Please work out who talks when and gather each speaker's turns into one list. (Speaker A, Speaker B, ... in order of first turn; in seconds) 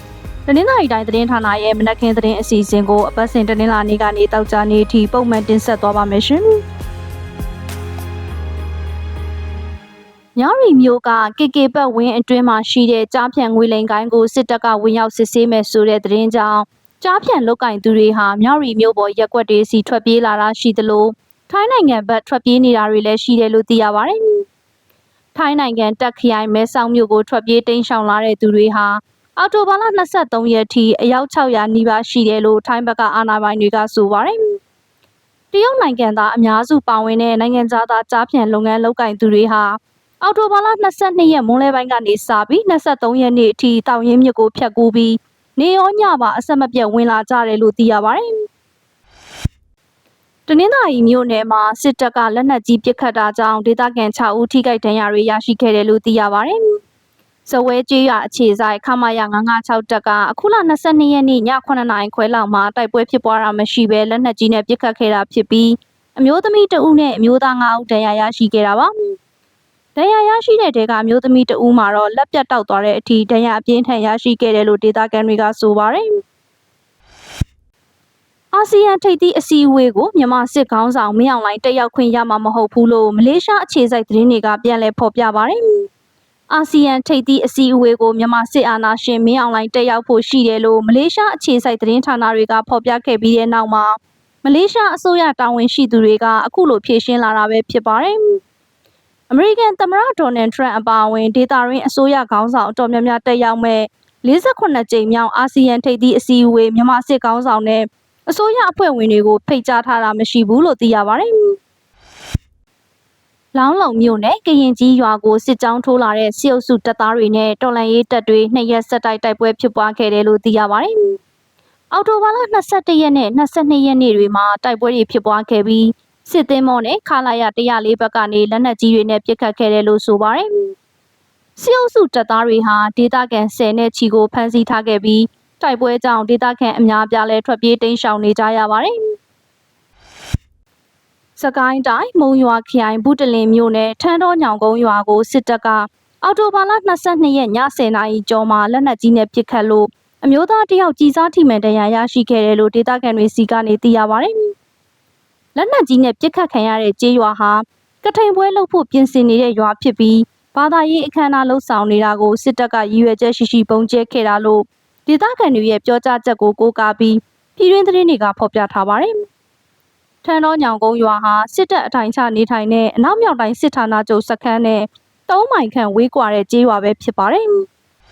Speaker A: 0.5-6.6, 10.4-24.5, 25.4-34.6, 35.5-48.5, 50.5-56.8, 57.5-69.2, 70.0-76.2, 78.5-85.9, 86.5-98.4, 99.3-111.6, 113.5-121.2, 121.9-130.8, 131.6-139.2, 141.4-154.5, 155.6-169.2, 170.2-177.7